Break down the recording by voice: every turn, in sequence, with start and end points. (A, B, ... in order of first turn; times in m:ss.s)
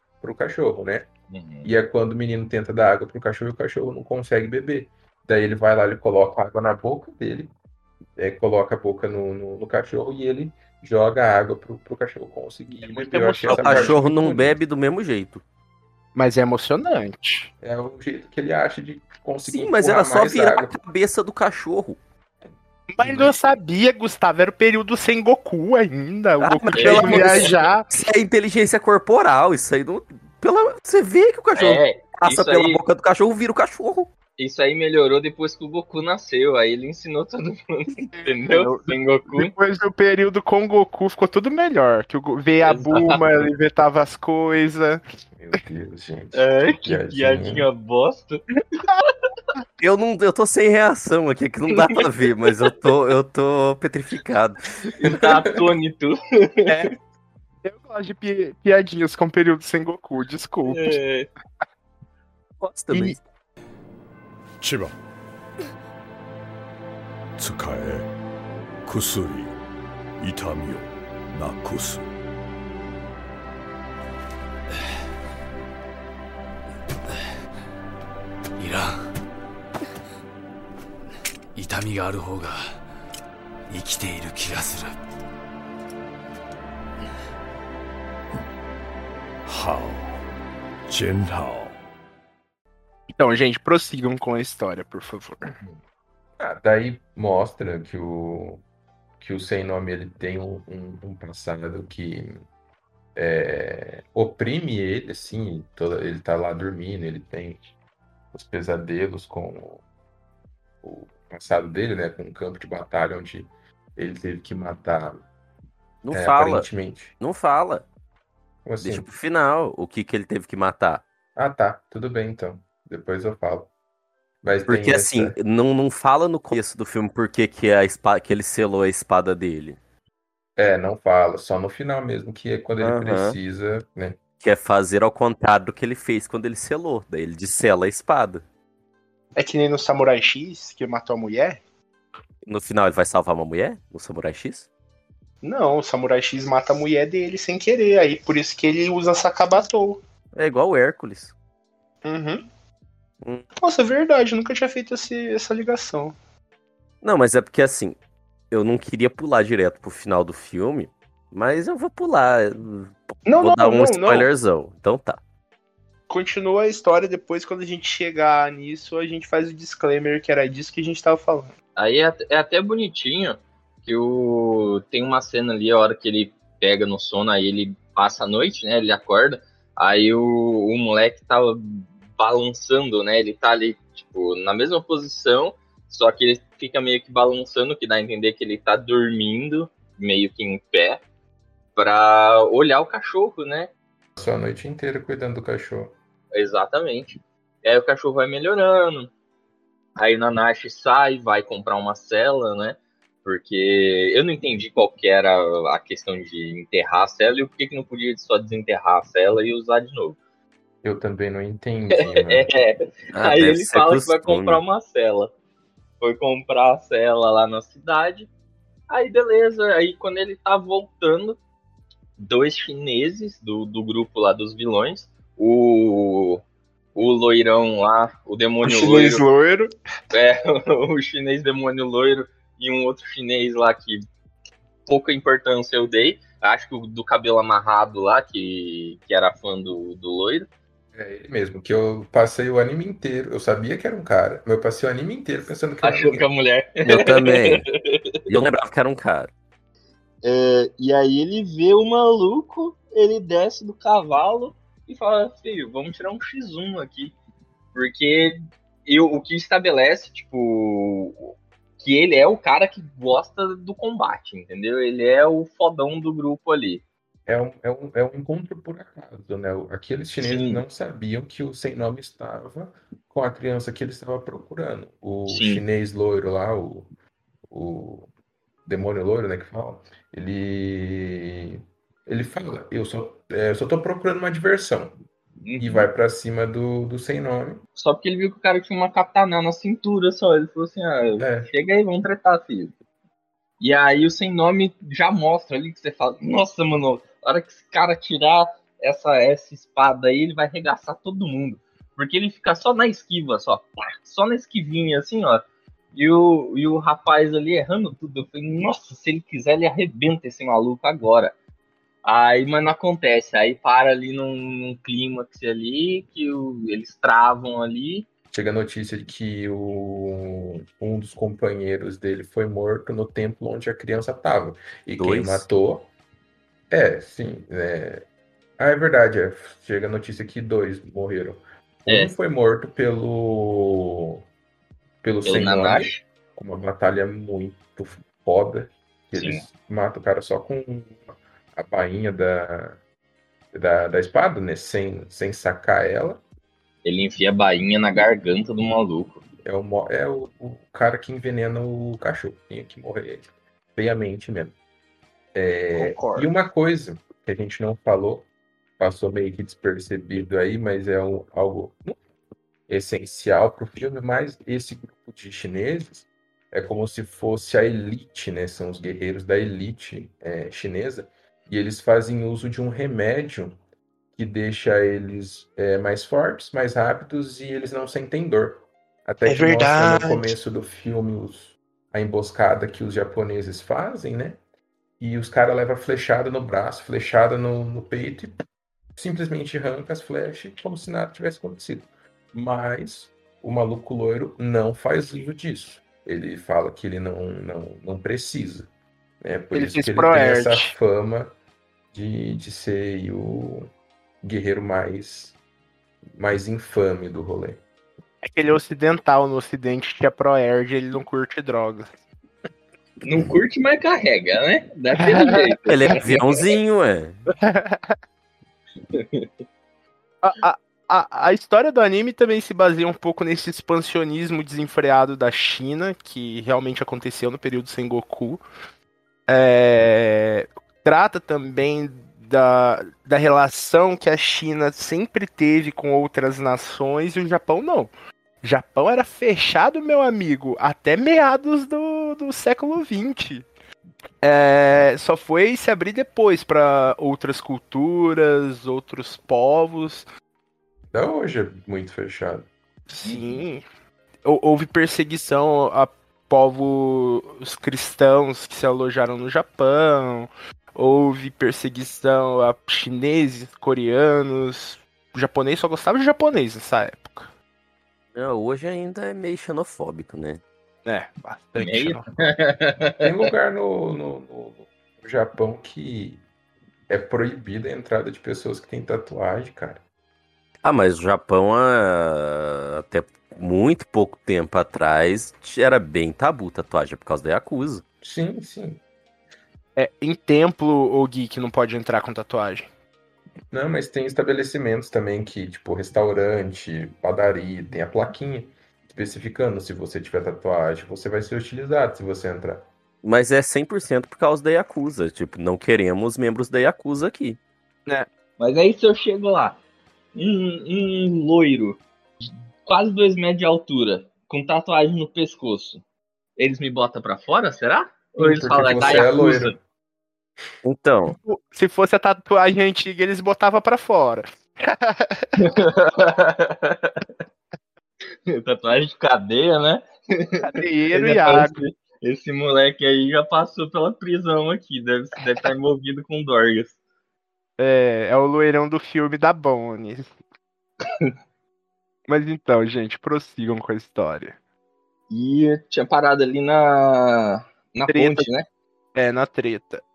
0:00.2-0:01.1 A
0:01.3-0:01.7 B
0:01.6-0:07.5 A
0:08.2-0:14.6 A
0:12.7-0:14.0 C
0:13.5-0:15.4 D
0:16.2-0:17.5 C
0:17.6-0:20.8 A
0:19.5-0:22.0 D
0:22.9-0:27.9 C
0:23.0-0:23.4 A
0:26.4-0:34.1 D
0:26.8-0:27.5 B
0:31.6-0:32.8 B
0:34.4-0:39.5 B
0:38.2-0:45.0 C
0:42.6-0:43.2 B
0:45.4-0:47.7 A
0:46.3-0:48.4 B
0:49.8-0:55.0 D
0:55.0-0:56.8 B
0:55.1-0:55.6 A
0:56.7-0:57.0 C
0:57.6-1:01.0 C
1:00.7-1:01.3 B
1:02.6-1:03.2 D
1:02.9-1:03.2 C
1:04.6-1:04.9 E
1:07.4-1:08.1 E
1:08.9-1:09.5 E
1:10.2-1:12.0 E
1:18.6-1:19.1 F
1:21.6-1:22.8 F
1:23.7-1:25.0 F
1:29.5-1:30.1 E
1:30.9-1:31.7 E
1:33.1-1:35.5 C
1:36.4-1:38.6 A
1:39.2-1:42.4 A
1:43.2-1:47.7 A
1:48.3-1:49.8 A
1:50.8-1:55.2 A
1:56.0-1:56.7 D
1:56.1-1:57.1 A
1:57.2-1:57.8 D
1:58.6-1:59.1 A
1:58.8-2:01.0 D
2:01.4-2:03.7 A
2:04.4-2:05.4 A
2:04.7-2:09.8 D
2:10.6-2:14.2 A
2:12.8-2:13.4 D
2:14.4-2:18.4 D
2:19.4-2:21.6 C
2:22.5-2:24.7 D
2:25.4-2:30.0 C
2:30.4-2:31.3 D
2:32.0-2:32.4 C
2:33.6-2:36.2 C
2:37.0-2:38.0 D
2:38.5-2:45.2 D
2:43.3-2:44.3 C
2:46.1-2:51.5 C
2:51.8-3:11.0 B
3:11.8-3:13.7 B
3:14.2-3:16.0 A
3:16.3-3:19.1 B
3:20.0-3:30.2 B
3:30.8-3:32.5 A
3:32.1-3:35.3 B
3:33.1-3:34.6 D
3:36.0-3:38.3 B
3:38.9-3:41.4 B
3:42.2-3:46.4 B
3:47.0-3:49.2 B
3:48.6-3:49.7 C
3:50.1-3:54.0 B
3:54.9-4:00.5 B
4:00.9-4:06.3 A
4:05.8-4:07.6 B
4:06.9-4:07.7 D
4:08.3-4:09.3 D
4:10.2-4:17.2 B
4:17.7-4:26.8 B
4:27.3-4:36.9 A
4:30.2-4:30.6 B
4:35.3-4:35.6 B
4:37.5-4:38.1 A
4:38.7-4:45.0 A
4:45.4-4:45.9 B
4:45.6-4:47.6 A
4:47.8-4:52.7 B
4:51.2-4:51.5 A
4:53.6-5:11.3 B
5:12.0-5:18.1 B
5:18.3-5:25.9 A
5:25.0-5:25.4 D
5:26.7-5:28.0 A
5:28.6-5:34.2 A
5:31.9-5:32.1 B
5:35.0-5:42.8 A
5:35.2-5:36.0 B
5:39.2-5:39.4 B
5:43.5-5:46.2 A
5:46.8-5:49.2 B
5:49.4-5:54.6 A
5:55.3-5:58.3 A
5:55.8-5:56.2 B
5:58.8-6:02.0 A
6:02.7-6:13.6 A
6:14.1-6:24.4 A
6:19.3-6:20.4 C
6:25.0-6:28.4 A
6:29.0-6:38.7 A
6:39.2-6:41.3 A
6:39.5-6:40.8 C
6:41.9-6:43.7 A
6:44.2-6:45.4 A
6:46.2-6:47.6 A
6:48.2-6:51.9 C
6:53.0-6:56.4 B
6:55.0-6:55.4 C
6:55.7-6:57.2 D
6:57.3-6:58.0 C
6:58.9-6:59.3 B
7:00.2-7:08.4 C
7:09.3-7:17.9 C
7:18.4-7:23.5 C
7:24.2-7:30.1 C
7:30.9-7:32.5 A
7:32.9-7:33.6 C
7:34.2-7:47.3 C
7:48.1-7:50.4 D
7:50.9-7:52.3 C
7:51.6-7:53.1 B
7:53.0-7:56.2 A
7:56.9-7:59.8 A
8:00.6-8:07.8 D
8:08.0-8:08.8 A
8:09.8-8:12.7 C
8:13.5-8:22.7 A
8:23.0-8:27.4 D
8:28.4-8:29.6 B
8:30.2-8:31.8 B
8:32.6-8:35.8 B
8:36.4-8:39.6 B
8:38.2-8:39.6 A
8:40.6-8:41.2 D
8:41.1-8:45.3 C
8:45.4-8:47.1 B
8:48.3-8:56.8 B
8:50.4-8:51.6 C
8:57.6-9:00.2 C
9:00.8-9:01.1 B
9:02.1-9:04.4 C
9:05.1-9:08.4 B
9:07.9-9:08.3 C
9:09.0-9:09.8 C